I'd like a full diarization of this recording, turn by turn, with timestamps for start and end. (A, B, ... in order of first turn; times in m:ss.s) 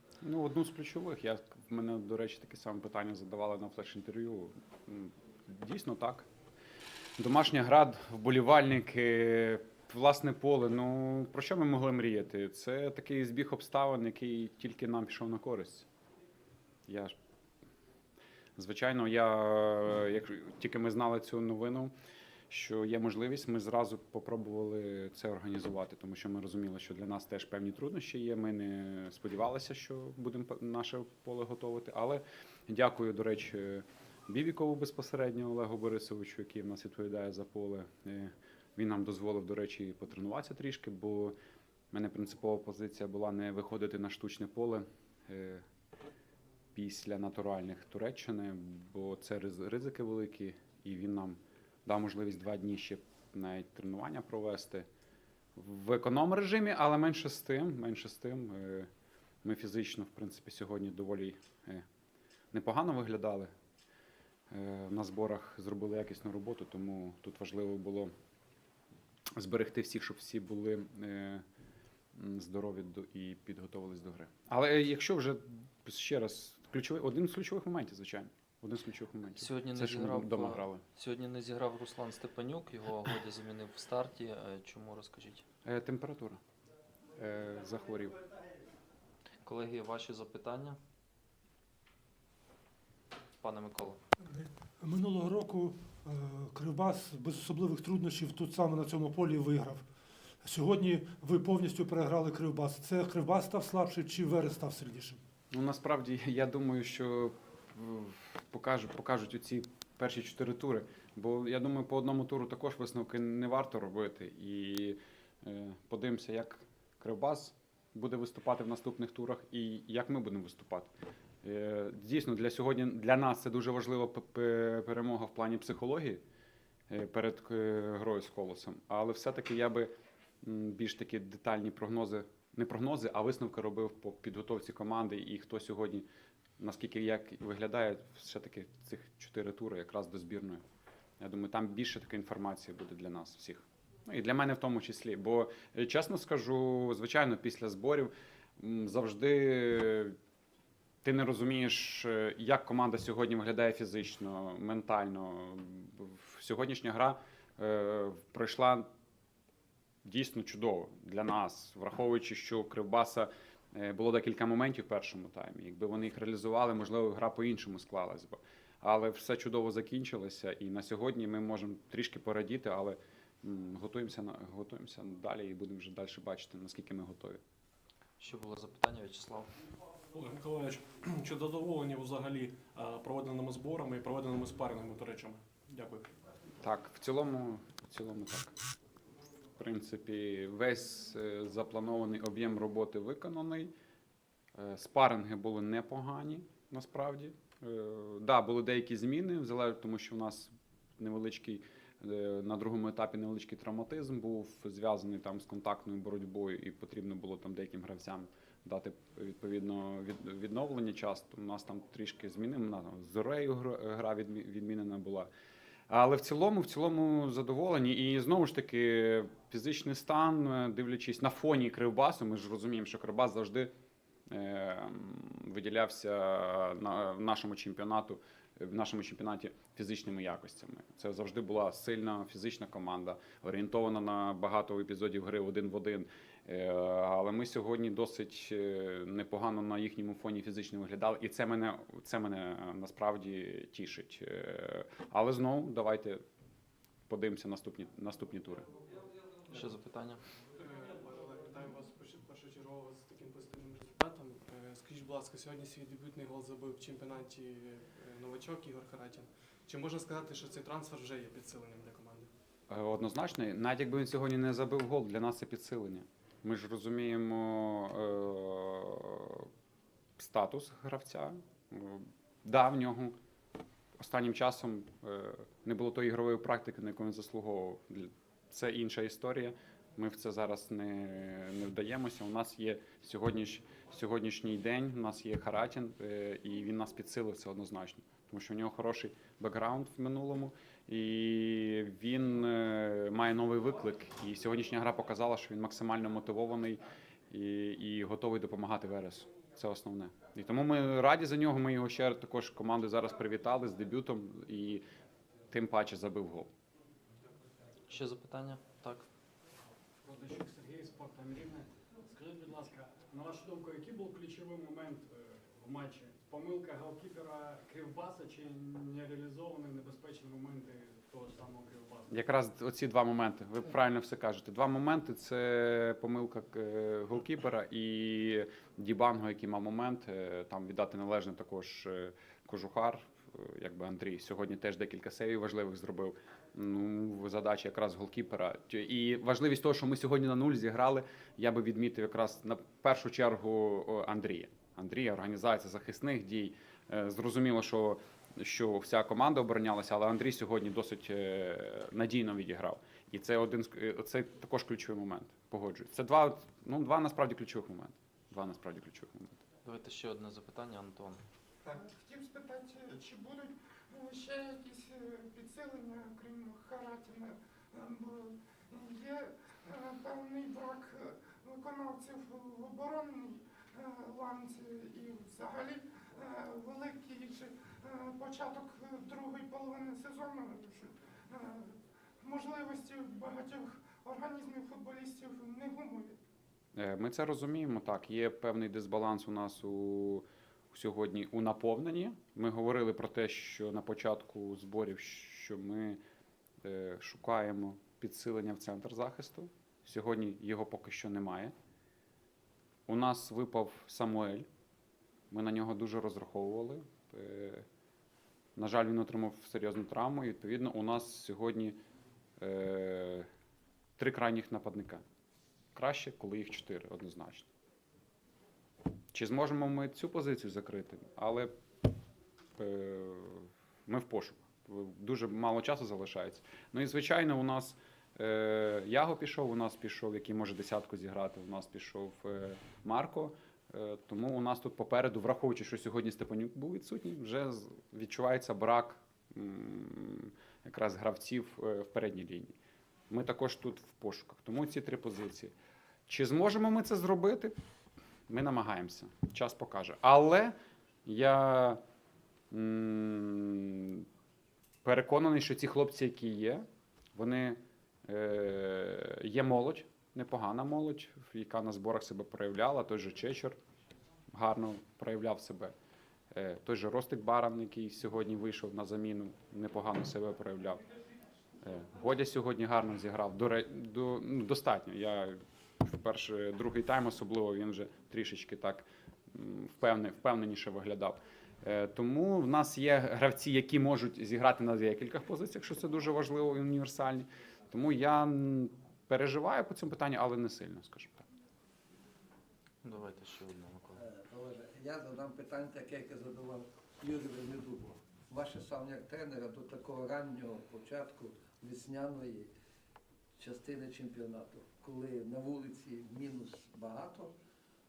0:00.2-0:06.3 A
0:07.2-0:15.9 A
0:16.9-0:17.1 A
0:18.6-0:21.9 A
0:22.5-0:41.3 A
0:41.9-0:45.6 A
0:46.7-0:54.9 A
0:55.6-0:58.9 A
0:59.4-1:01.8 A
1:02.5-1:03.5 A
1:04.5-1:08.1 A
1:09.4-1:11.4 A
1:12.2-1:20.8 A
1:19.4-1:25.4 B
1:25.6-1:26.4 A
1:27.2-1:28.2 A
1:29.4-1:30.8 B
1:33.4-1:34.0 B
1:34.2-1:39.8 C
1:40.4-1:45.2 C
1:45.5-2:00.9 A
2:01.4-2:06.2 A
2:06.9-2:09.9 A
2:10.4-2:16.1 A
2:16.6-2:20.6 A
2:21.2-2:30.2 A
2:31.0-2:38.9 A
2:40.0-2:57.4 A
2:58.2-2:59.5 B
3:00.1-3:06.1 D
3:06.6-3:08.5 A
3:09.6-3:13.7 A
3:14.6-3:35.3 A
3:35.9-3:43.7 A
3:44.3-4:06.2 A
4:07.1-4:08.7 A
4:09.5-4:10.2 B
4:10.6-4:22.3 E
4:22.7-4:29.5 A
4:30.2-4:33.2 A
4:34.0-5:04.8 A
5:05.5-5:06.5 A
5:07.9-5:09.0 B
5:10.0-5:22.2 F
5:22.1-5:59.4 A
5:59.7-6:01.2 B
6:01.6-6:26.2 G
6:26.8-6:36.0 A
6:36.6-6:41.5 A
6:42.9-6:44.5 A
6:45.3-6:47.6 A
6:48.6-6:51.8 A
6:52.4-6:53.3 A
6:54.0-6:55.0 A
6:55.8-6:57.5 A
6:59.1-7:01.5 A
7:02.6-7:22.6 A
7:23.1-7:25.5 A
7:26.1-7:27.5 A
7:28.3-7:30.5 A
7:31.1-7:31.8 A
7:32.5-7:34.0 A
7:34.8-7:43.6 A
7:44.3-7:45.7 A
7:46.3-7:50.8 A
7:51.6-8:11.3 A
8:12.8-8:13.9 B
8:14.0-8:22.5 H
8:23.4-8:27.3 H